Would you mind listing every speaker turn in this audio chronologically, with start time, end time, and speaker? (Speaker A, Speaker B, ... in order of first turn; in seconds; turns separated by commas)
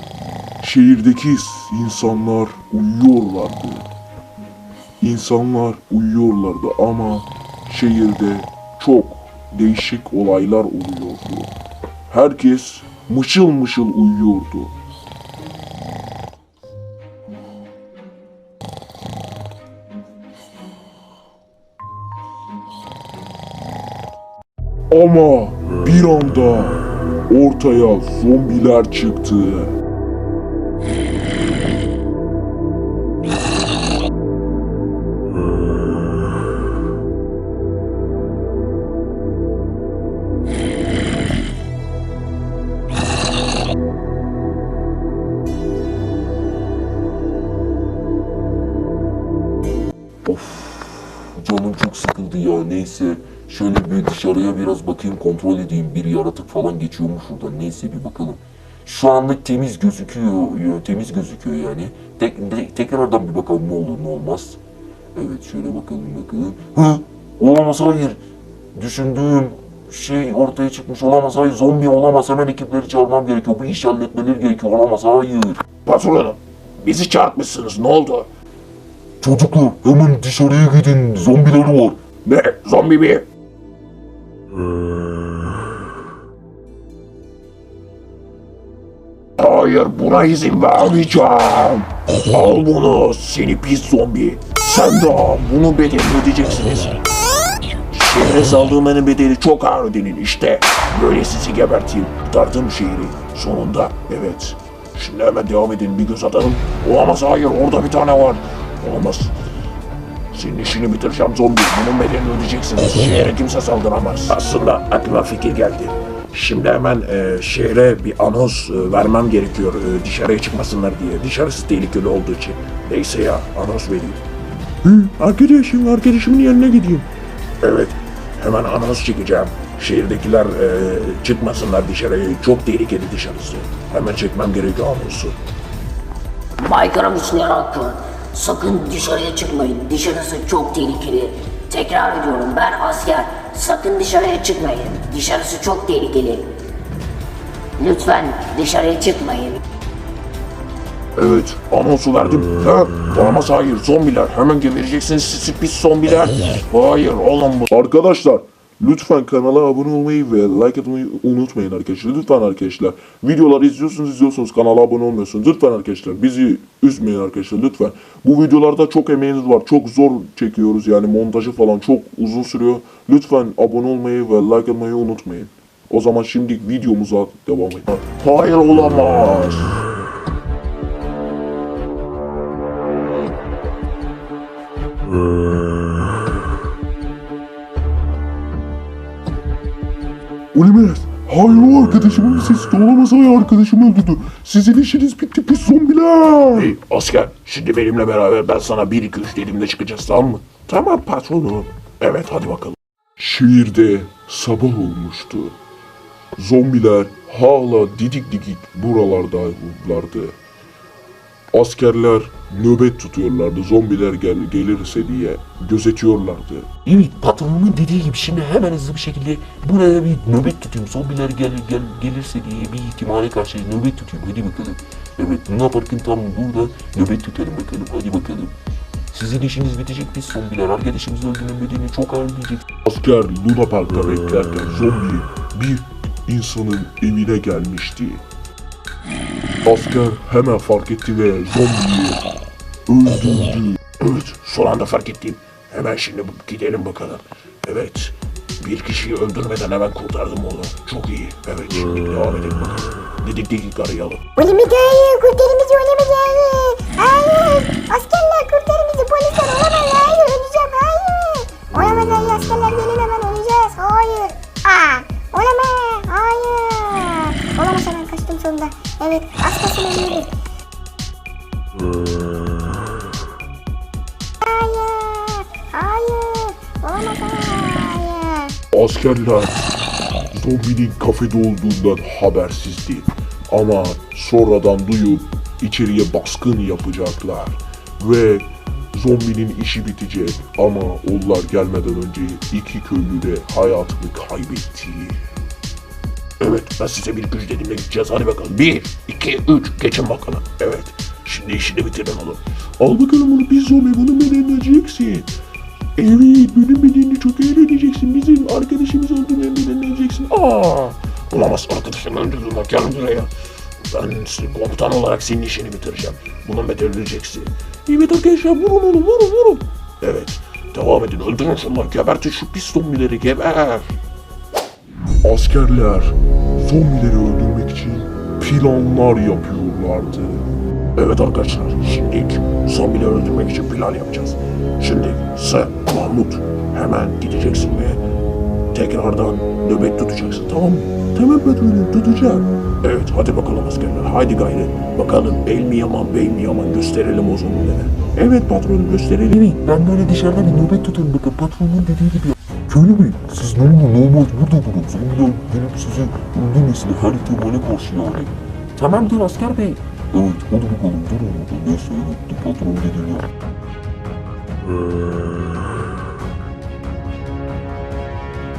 Speaker A: 0.6-3.9, Speaker A: 5.0-11.5, Speaker A: 12.1-14.7, Speaker A: 24.9-29.7, Speaker B: 50.2-64.6, Speaker B: 65.1-68.2, Speaker B: 68.7-75.6, Speaker C: 75.8-78.3, Speaker B: 79.2-82.0, Speaker C: 82.2-83.2, Speaker C: 89.4-97.0, Speaker C: 97.9-109.3, Speaker C: 110.3-124.2, Speaker C: 124.8-127.1, Speaker C: 127.6-135.4, Speaker D: 136.6-146.4, Speaker D: 147.8-149.5, Speaker C: 151.2-157.7, Speaker A: 157.7-178.0, Speaker C: 178.0-179.8, Speaker A: 190.5-196.8, Speaker C: 196.5-202.8, Speaker A: 203.2-205.6, Speaker A: 206.3-210.3, Speaker A: 211.5-216.7, Speaker B: 216.8-228.5, Speaker B: 229.1-232.6, Speaker A: 232.8-238.2, Speaker A: 239.6-242.2, Speaker A: 242.9-243.8, Speaker C: 244.0-254.2, Speaker E: 254.3-270.3, Speaker E: 274.4-278.6, Speaker A: 278.7-279.6, Speaker A: 280.3-295.2, Speaker C: 296.4-305.3, Speaker C: 305.9-313.3, Speaker C: 313.9-323.9, Speaker A: 325.2-330.5, Speaker C: 330.9-338.0, Speaker C: 338.7-349.4, Speaker B: 349.3-363.3